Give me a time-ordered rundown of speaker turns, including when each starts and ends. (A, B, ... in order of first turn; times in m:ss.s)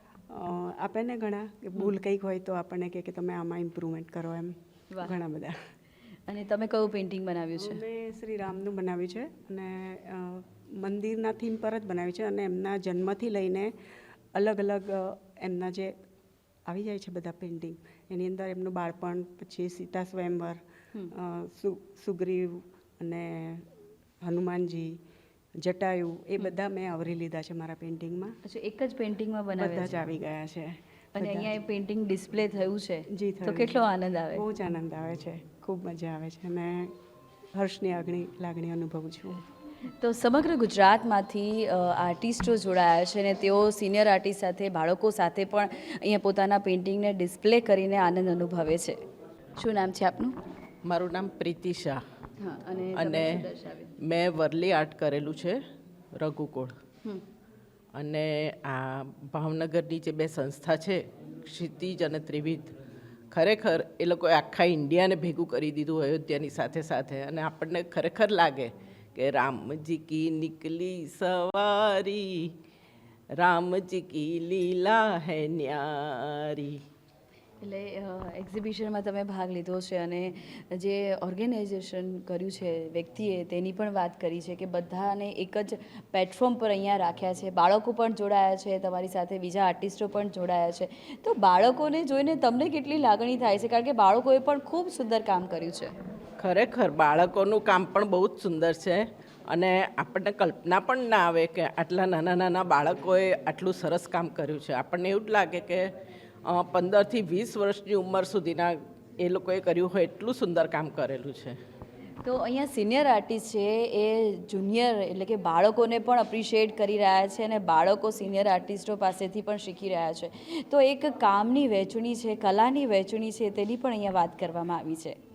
0:00.3-0:05.6 A
0:06.3-0:07.8 B
0:07.6-0:13.7 A
0:14.3-0:16.0 A
0:16.7-0:23.7 A
0:24.2-0:25.0 A
0:25.6-0:28.4 A
0:28.4-0:30.0 B
0:29.6-0:31.5 A
0:31.2-0:34.4 B
0:33.1-0:33.8 A
0:34.3-0:36.9 A
0:37.6-0:39.4 A
0:40.0-0:49.0 B
0:49.6-0:50.4 B
0:50.9-0:52.0 C
0:52.4-0:53.9 B
0:53.0-0:53.4 C
0:54.0-0:55.6 C
0:56.2-0:56.8 C
0:58.0-1:02.8 C
1:03.3-1:12.5 C
1:13.4-1:16.8 C
1:17.6-1:35.9 B
1:36.4-1:45.9 C
1:46.5-1:51.6 C
1:52.2-2:05.2 B